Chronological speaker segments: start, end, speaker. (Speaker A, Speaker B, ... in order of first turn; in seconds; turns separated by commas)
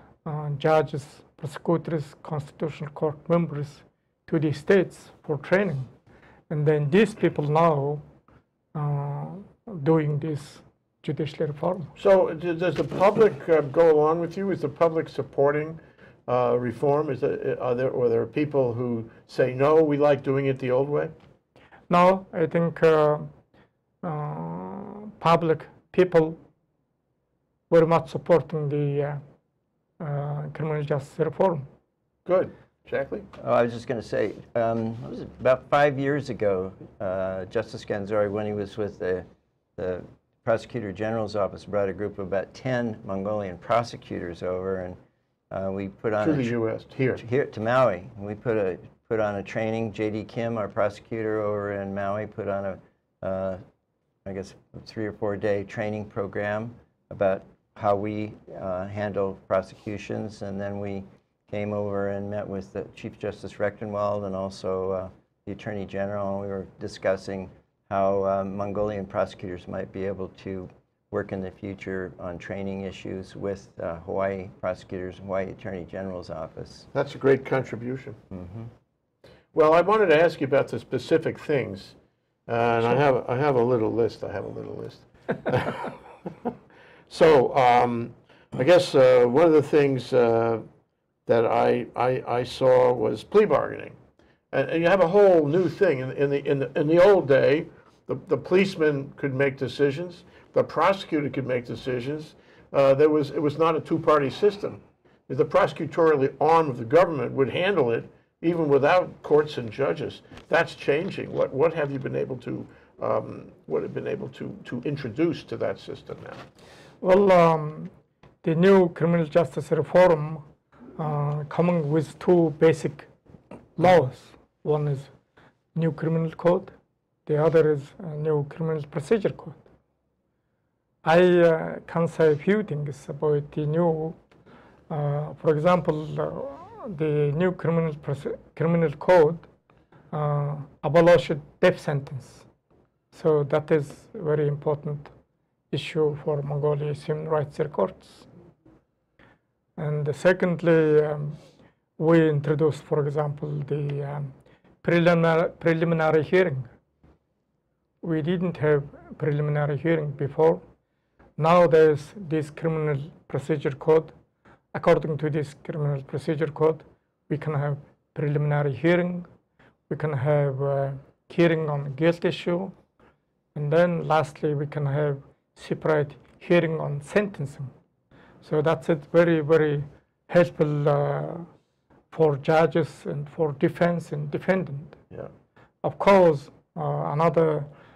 Speaker A: 0.2-5.9, Speaker A: 6.5-8.0, Speaker A: 8.7-11.9, Speaker B: 12.0-21.1, Speaker A: 21.9-23.3, Speaker A: 24.0-26.4, Speaker A: 27.7-29.2, Speaker A: 30.0-31.7, Speaker B: 32.2-33.3, Speaker C: 33.4-39.2, Speaker C: 39.8-45.0, Speaker C: 45.5-46.5, Speaker B: 46.2-47.2, Speaker C: 47.1-53.6, Speaker C: 54.2-76.9, Speaker B: 76.9-78.2, Speaker C: 78.3-78.7, Speaker B: 79.5-82.0, Speaker B: 82.5-86.5, Speaker B: 87.1-90.6, Speaker B: 91.3-94.0, Speaker B: 94.5-116.4, Speaker A: 117.0-117.9, Speaker A: 118.4-120.4, Speaker A: 121.0-123.1, Speaker A: 123.8-125.1, Speaker A: 125.7-126.7, Speaker A: 127.3-129.6, Speaker A: 131.0-134.2, Speaker A: 134.9-139.4, Speaker A: 140.1-142.4, Speaker A: 143.1-145.1, Speaker A: 145.7-148.3, Speaker A: 149.8-151.4, Speaker A: 152.0-154.3, Speaker A: 154.8-156.7, Speaker A: 158.0-160.6, Speaker A: 161.4-164.1, Speaker A: 164.7-169.3, Speaker A: 169.9-172.7, Speaker A: 173.5-177.7, Speaker A: 178.4-181.5, Speaker A: 182.1-184.9, Speaker A: 185.8-187.7